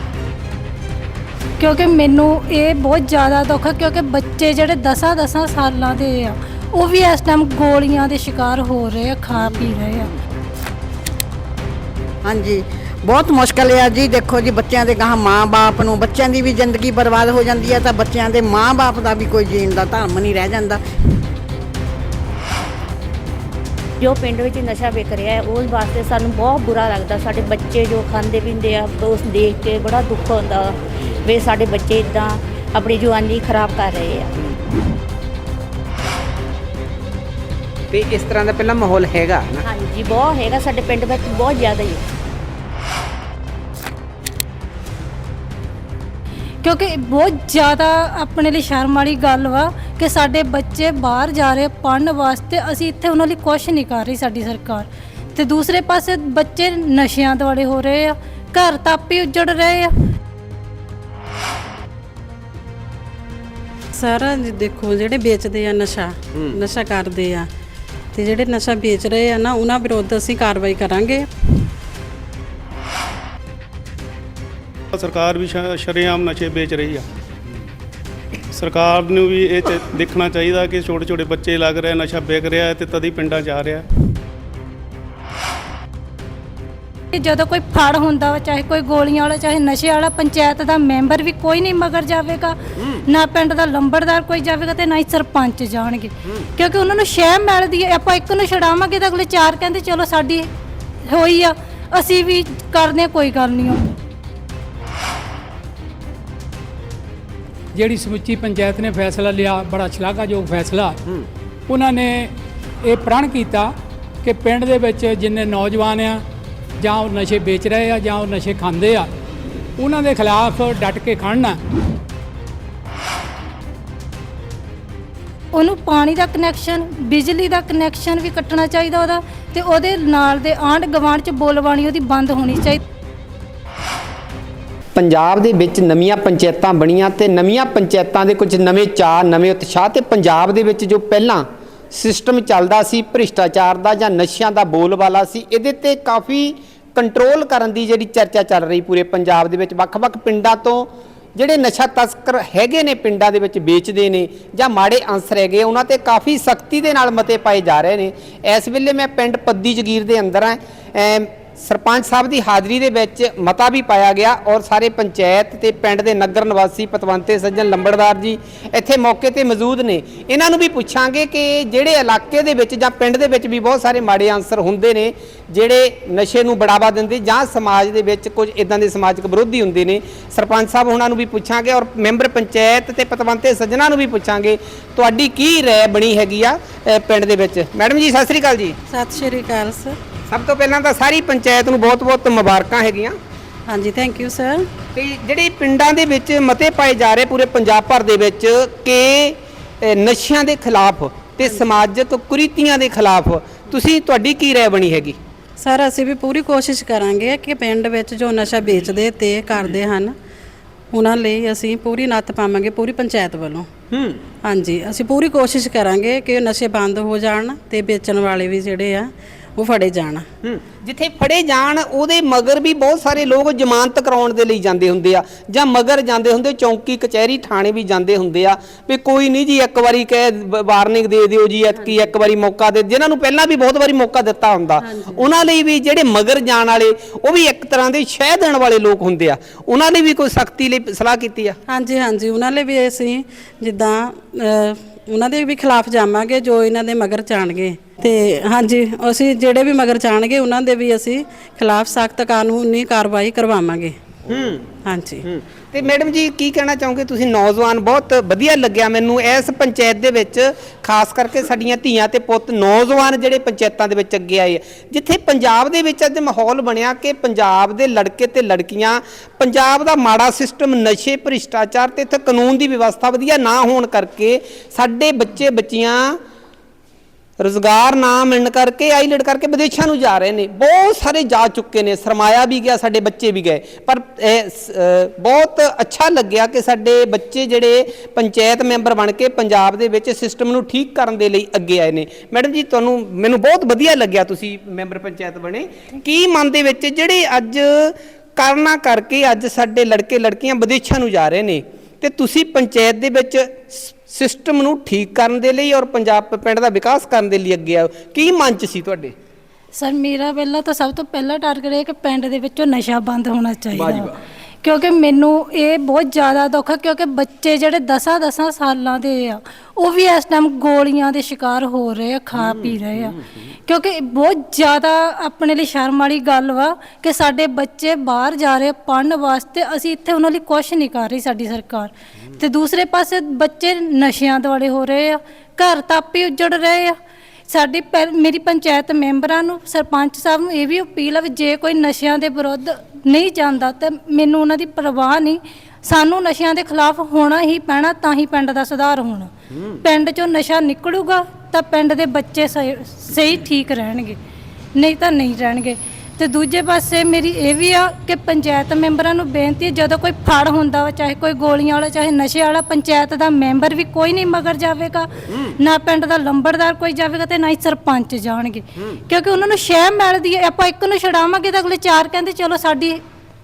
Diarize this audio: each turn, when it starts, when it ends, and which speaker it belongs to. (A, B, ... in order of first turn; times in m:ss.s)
0:01.6-0:10.1 A
0:12.3-0:20.8 B
0:24.0-0:34.3 C
0:37.9-0:39.6 D
0:39.7-0:42.0 C
0:46.6-0:59.9 A
1:03.9-1:07.5 E
1:08.1-1:11.3 E
1:14.9-1:17.0 F
1:18.5-1:23.9 F
1:27.1-1:40.4 A
1:41.1-1:43.8 A
1:47.7-1:51.0 G
1:51.7-1:53.7 G
1:54.2-1:56.2 G
1:56.8-1:59.1 G
1:59.8-2:01.6 G
2:05.6-2:12.8 A
2:15.0-3:08.8 D
3:08.9-3:10.0 E
3:10.3-3:13.2 D
3:13.7-3:14.7 E
3:14.9-3:25.2 D
3:25.6-3:30.2 E
3:30.9-3:33.7 E
3:33.9-3:34.2 D
3:34.4-3:40.2 E
3:40.4-4:01.6 D
3:51.8-3:52.0 E
3:54.8-3:55.3 E
4:01.7-4:14.0 E
4:14.3-4:14.7 D
4:14.8-4:15.2 E
4:15.3-4:36.2 D
4:37.4-5:09.1 D
5:09.8-5:14.1 A
5:13.7-5:14.2 D
5:14.6-5:36.9 A
5:22.3-5:23.2 D
5:37.5-5:54.2 A
5:54.8-6:13.0 A